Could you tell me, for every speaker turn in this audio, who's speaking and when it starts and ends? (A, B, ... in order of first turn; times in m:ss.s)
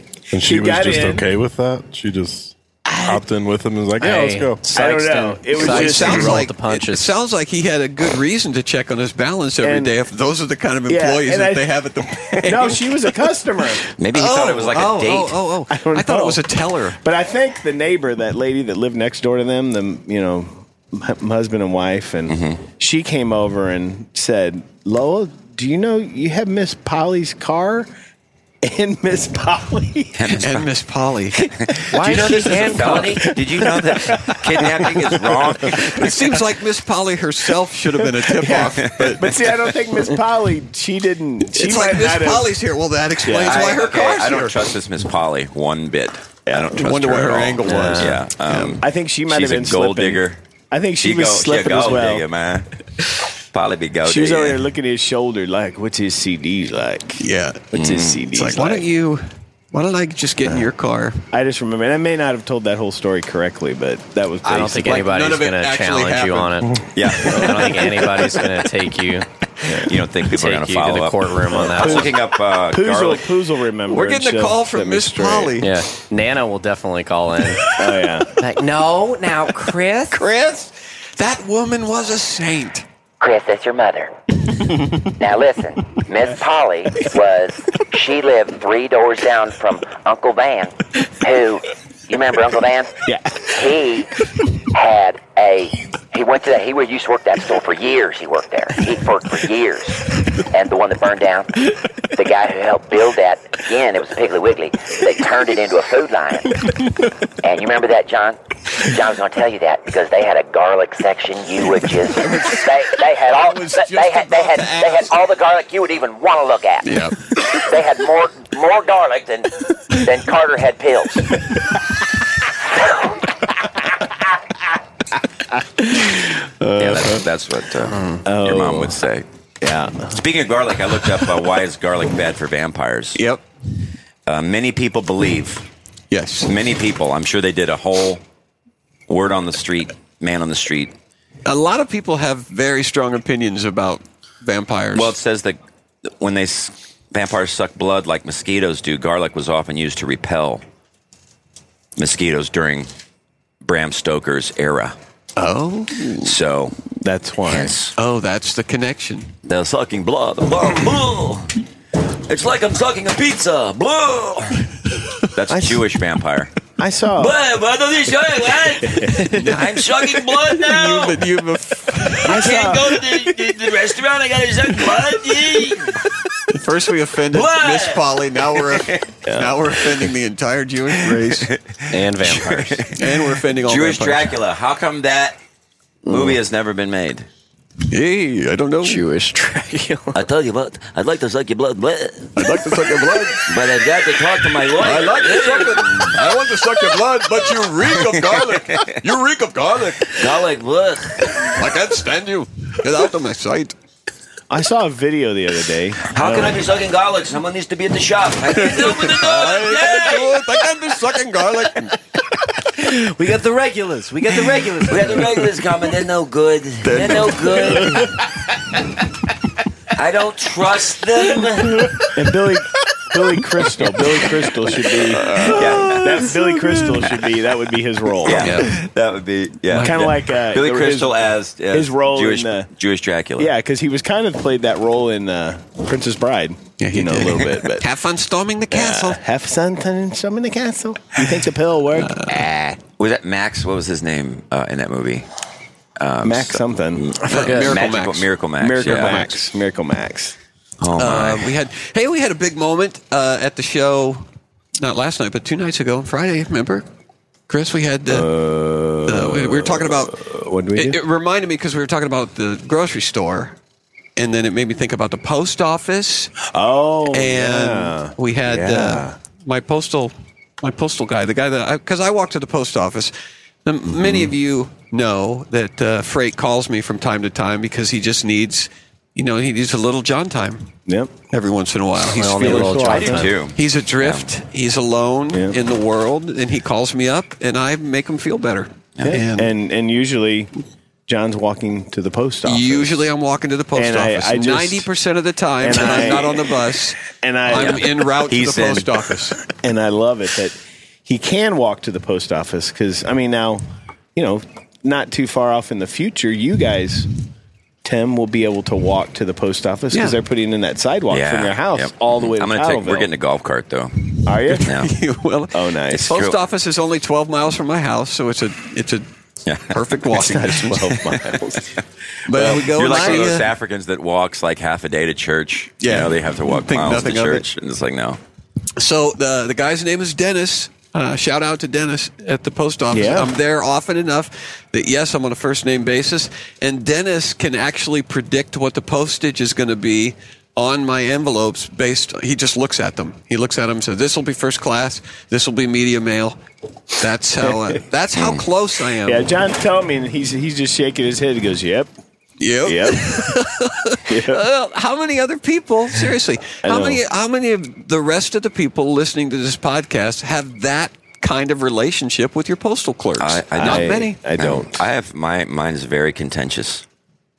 0:00.3-0:01.3 A
0:00.3-0:04.6 B
0:02.9-0:03.2 A
0:04.0-0:07.1 C
0:04.7-0:06.4 A
0:05.6-0:13.1 D
0:09.6-0:09.9 A
0:10.9-0:11.6 A
0:12.4-0:13.8 A
0:14.0-0:15.4 E
0:14.1-0:17.0 D
0:15.7-0:16.4 A
0:17.0-0:27.9 A
0:22.3-0:22.6 E
0:28.6-0:30.4 A
0:30.2-0:30.6 E
0:30.3-0:31.5 D
0:31.5-0:36.2 E
0:31.9-0:33.3 C
0:32.5-0:33.0 D
0:33.6-0:34.4 A
0:35.8-0:39.3 D
0:38.2-0:42.5 A
0:38.5-0:39.2 E
0:41.5-0:44.6 D
0:43.2-0:43.8 A
0:43.4-0:50.4 E
0:46.5-0:46.8 A
0:46.7-0:48.8 D
0:47.6-0:48.1 C
0:48.8-0:52.3 A
0:51.0-0:52.7 E
0:53.5-0:54.6 E
0:54.0-0:58.8 A
0:57.2-0:57.7 D
0:57.7-0:58.2 E
0:58.3-1:01.2 D
1:01.3-1:05.0 A
1:04.4-1:09.3 C
1:04.7-1:06.8 D
1:06.9-1:07.9 E
1:09.6-1:09.9 A
1:09.8-1:13.3 E
1:10.3-1:12.1 C
1:11.5-1:15.6 A
1:13.9-1:15.7 D
1:15.6-1:17.6 C
1:17.8-1:18.3 A
1:18.4-1:20.2 C
1:20.1-1:22.8 D
1:23.2-1:24.1 F
1:25.0-1:32.9 F
1:33.1-1:33.4 A
1:33.4-1:34.1 F
1:34.7-1:46.6 F
1:47.4-2:01.4 F
1:52.2-1:52.6 D
1:53.2-1:55.1 D
1:56.8-1:57.2 D
2:02.8-2:03.2 F
2:06.8-2:09.2 E
2:08.2-2:09.0 A
2:09.6-2:10.2 A
2:10.1-2:13.2 E
2:13.1-2:13.4 D
2:14.2-2:15.6 E
2:16.1-2:16.5 D
2:16.4-2:18.2 E
2:19.1-2:20.9 E
2:21.4-2:25.1 D
2:24.9-2:30.6 E
2:32.0-2:32.9 E
2:33.6-2:35.0 E
2:35.4-2:36.4 D
2:36.2-2:36.8 E
2:37.0-2:37.8 A
2:37.5-2:37.9 E
2:38.0-2:39.3 D
2:39.4-2:41.6 E
2:42.1-2:44.6 E
2:45.3-2:46.5 E
2:46.8-2:47.4 A
2:47.2-2:51.2 E
2:48.9-2:49.2 A
2:49.2-2:52.6 D
2:52.2-2:56.0 E
2:52.2-2:53.0 A
2:56.5-3:01.5 D
2:57.3-2:58.0 E
2:58.6-2:59.0 E
2:59.2-2:59.6 A
3:01.0-3:05.4 E
3:01.9-3:02.8 C
3:03.0-3:04.4 D
3:06.1-3:07.3 E
3:06.1-3:06.3 C
3:07.9-3:09.0 D
3:08.8-3:10.2 C
3:10.1-3:12.3 E
3:12.3-3:13.4 D
3:13.4-3:16.2 E
3:14.7-3:20.3 D
3:18.1-3:19.0 E
3:20.2-3:21.4 E
3:21.3-3:23.7 D
3:24.5-3:26.6 A
3:26.1-3:30.3 E
3:28.5-3:32.0 D
3:32.8-3:34.9 C
3:34.1-3:38.2 E
3:36.8-3:38.1 D
3:39.9-3:41.8 E
3:42.1-3:48.6 A
3:45.2-3:46.3 D
3:45.4-3:46.2 E
3:48.2-3:53.5 E
3:48.3-3:48.8 D
3:49.7-3:50.1 D
3:49.7-3:52.7 A
3:53.4-3:57.8 A
3:56.8-3:59.2 D
3:58.7-4:02.8 A
4:01.9-4:02.4 D
4:03.0-4:05.2 E
4:06.0-4:09.3 E
4:06.2-4:07.1 A
4:07.3-4:08.3 D
4:07.3-4:07.8 C
4:08.6-4:10.4 A
4:08.8-4:09.3 D
4:10.8-4:11.5 E
4:11.0-4:14.2 D
4:14.8-4:16.8 D
4:17.5-4:18.3 D
4:18.1-4:21.0 A
4:19.0-4:20.2 D
4:20.7-4:23.5 D
4:24.2-4:26.3 D
4:26.4-4:29.1 A
4:27.1-4:33.1 D
4:33.6-4:40.7 D
4:33.9-4:34.3 E
4:40.9-4:41.1 A
4:41.3-4:49.5 D
4:42.1-4:43.3 C
4:42.4-4:43.1 A
4:42.6-4:44.2 E
4:45.3-4:45.6 A
4:49.0-4:50.5 A
4:51.1-4:53.0 A
4:52.4-4:59.4 D
4:53.7-4:54.9 A
4:55.6-4:56.6 A
4:57.1-4:57.9 A
4:57.6-4:58.9 E
4:59.6-5:03.6 A
5:04.1-5:07.1 A
5:07.8-5:13.1 A
5:09.9-5:10.2 D
5:11.1-5:14.9 E
5:14.2-5:14.7 A
5:14.5-5:19.0 D
5:15.5-5:16.2 A
5:15.9-5:16.4 E
5:19.4-5:19.8 E
5:19.7-5:21.0 D
5:20.1-5:21.8 A
5:20.9-5:21.4 E
5:22.2-5:23.5 D
5:22.3-5:23.3 A
5:22.4-5:28.2 E
5:25.8-5:27.4 D
5:28.8-5:46.4 D
5:32.9-5:33.3 A
5:47.0-5:49.3 D
5:48.1-5:48.4 E
5:49.0-5:51.9 A
5:52.4-6:04.2 D
5:52.6-5:53.2 A
5:54.1-5:54.4 A
5:56.6-5:57.0 A
6:03.2-6:06.8 E
6:03.6-6:04.8 A